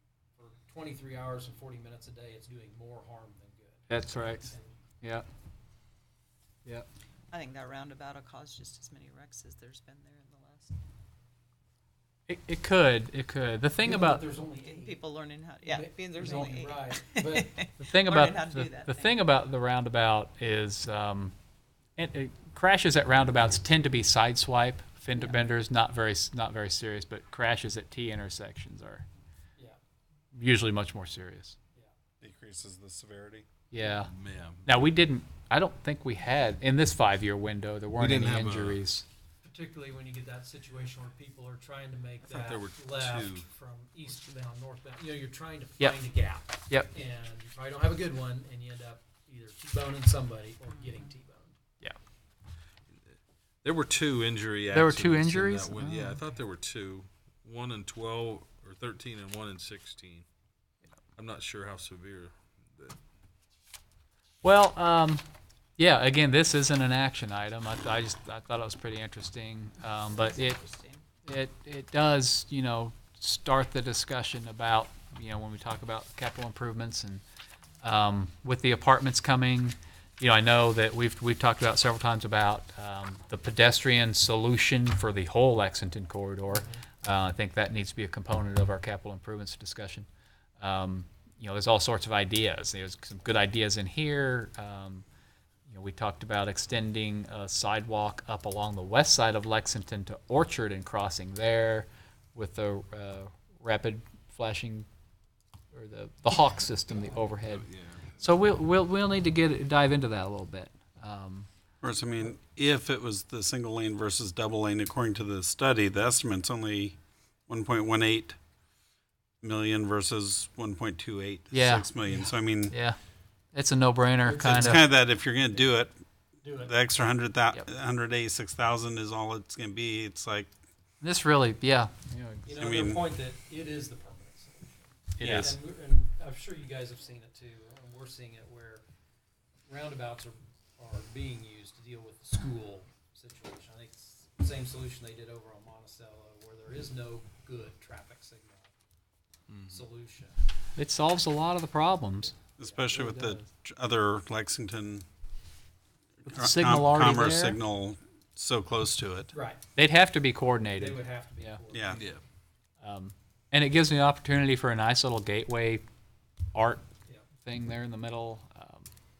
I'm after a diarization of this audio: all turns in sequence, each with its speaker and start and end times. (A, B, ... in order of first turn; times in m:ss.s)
0:00.4-0:03.9 A
0:03.9-0:05.2 B
0:04.4-0:04.7 A
0:07.3-0:10.7 C
0:12.3-0:14.2 B
0:13.8-0:15.0 A
0:14.6-0:19.3 C
0:15.6-0:17.6 A
0:17.9-0:21.3 B
0:22.0-0:29.0 B
0:25.1-0:25.4 C
0:30.3-0:31.6 B
0:32.2-0:33.4 D
0:33.7-0:34.1 B
0:34.0-0:34.7 E
0:34.6-0:39.0 B
0:37.9-0:38.9 E
0:39.4-0:51.6 A
0:42.2-0:43.5 E
0:50.7-0:51.1 C
0:53.6-1:00.2 E
0:54.7-0:56.2 B
1:01.2-1:03.0 E
1:04.4-1:05.2 B
1:05.8-1:10.6 B
1:10.2-1:11.1 C
1:11.2-1:17.2 B
1:17.8-1:30.1 B
1:30.6-1:35.0 B
1:35.7-1:44.9 B
1:45.7-1:47.7 B
1:47.4-1:48.3 E
1:48.2-1:51.5 B
1:51.8-1:57.0 D
1:57.5-1:58.4 D
1:59.4-2:02.8 D
2:01.5-2:02.0 B
2:02.7-2:03.0 B
2:03.5-2:04.8 B
2:04.2-2:04.8 A
2:04.4-2:05.9 D
2:06.4-2:06.7 A
2:06.6-2:10.5 D
2:11.0-2:12.5 B
2:12.4-2:18.8 A
2:12.6-2:13.0 D
2:15.2-2:15.5 B
2:15.2-2:15.6 D
2:19.7-2:28.7 A
2:29.5-2:29.8 E
2:29.7-2:30.4 A
2:30.8-2:32.3 B
2:32.6-2:35.0 D
2:32.9-2:33.4 B
2:36.2-2:37.6 B
2:36.3-2:39.3 D
2:39.3-2:39.6 A
2:39.7-2:41.6 B
2:40.8-2:42.1 A
2:41.7-2:42.0 D
2:41.9-2:42.2 E
2:42.8-2:45.8 B
2:46.5-2:46.8 B
2:47.4-2:48.9 B